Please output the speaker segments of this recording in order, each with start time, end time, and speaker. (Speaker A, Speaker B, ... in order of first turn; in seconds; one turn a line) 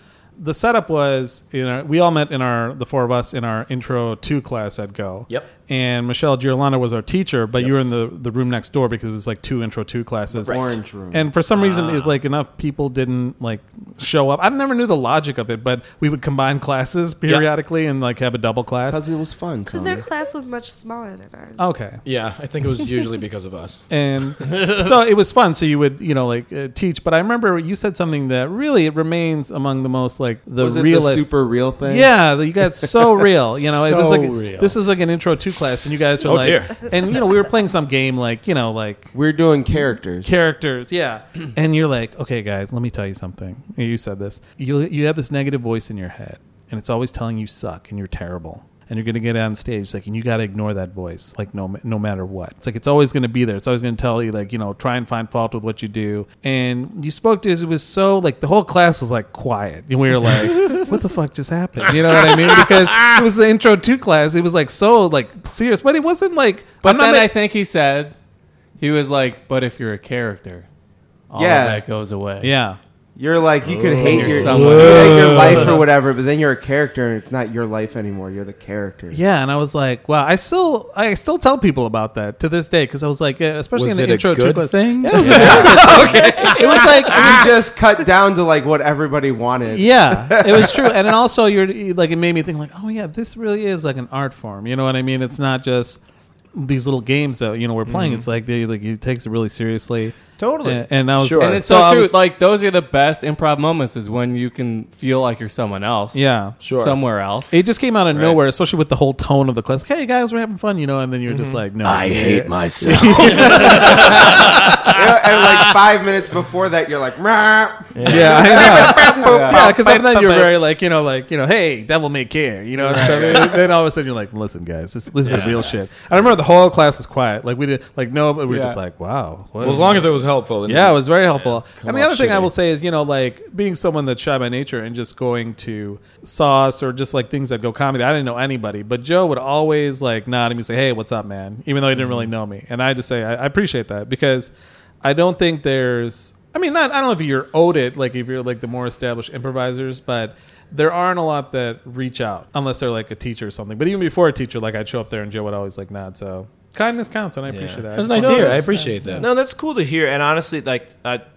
Speaker A: 0.4-10.6
Speaker B: 10.4-10.7
Speaker C: 10.4-11.3
Speaker A: 11.1-19.0
Speaker D: 11.6-12.1
Speaker C: 18.9-20.1
Speaker E: 19.7-21.7
Speaker A: 21.6-22.0
Speaker B: 22.0-23.9
Speaker A: 23.9-31.3
Speaker C: 30.6-32.1
Speaker A: 31.8-39.1
Speaker B: 33.9-34.6
Speaker F: 33.9-34.7
Speaker B: 36.2-36.8
Speaker C: 39.1-40.4
Speaker A: 40.2-67.3
Speaker F: 66.8-68.2
Speaker F: 68.8-70.7
Speaker F: 71.3-72.5
Speaker C: 71.4-71.8
Speaker A: 72.4-72.8
Speaker C: 73.2-79.2
Speaker D: 73.6-74.8
Speaker F: 74.0-75.8
Speaker B: 74.1-75.8
Speaker D: 75.4-75.7
Speaker A: 79.1-87.4
Speaker B: 83.8-87.5
Speaker D: 85.2-85.9
Speaker C: 85.4-91.0
Speaker A: 89.7-96.0
Speaker A: 96.5-102.2
Speaker B: 97.9-98.2
Speaker D: 100.4-100.9
Speaker B: 101.2-101.6
Speaker F: 101.3-107.6
Speaker A: 106.1-106.6
Speaker B: 106.6-107.0
Speaker A: 107.5-114.4
Speaker B: 108.1-108.4
Speaker D: 111.3-111.6
Speaker B: 111.8-115.1
Speaker F: 113.6-114.3
Speaker C: 114.9-119.7
Speaker B: 118.0-119.1
Speaker A: 118.0-130.1
Speaker D: 118.9-120.5
Speaker F: 119.2-119.7
Speaker B: 122.9-123.6
Speaker F: 122.9-123.5
Speaker F: 125.3-125.7
Speaker D: 125.3-125.5
Speaker B: 125.3-125.6
Speaker F: 128.5-128.8
Speaker B: 129.6-131.0
Speaker A: 130.6-159.3
Speaker D: 131.3-131.6
Speaker B: 131.8-132.5
Speaker D: 157.5-161.2
Speaker B: 157.9-159.3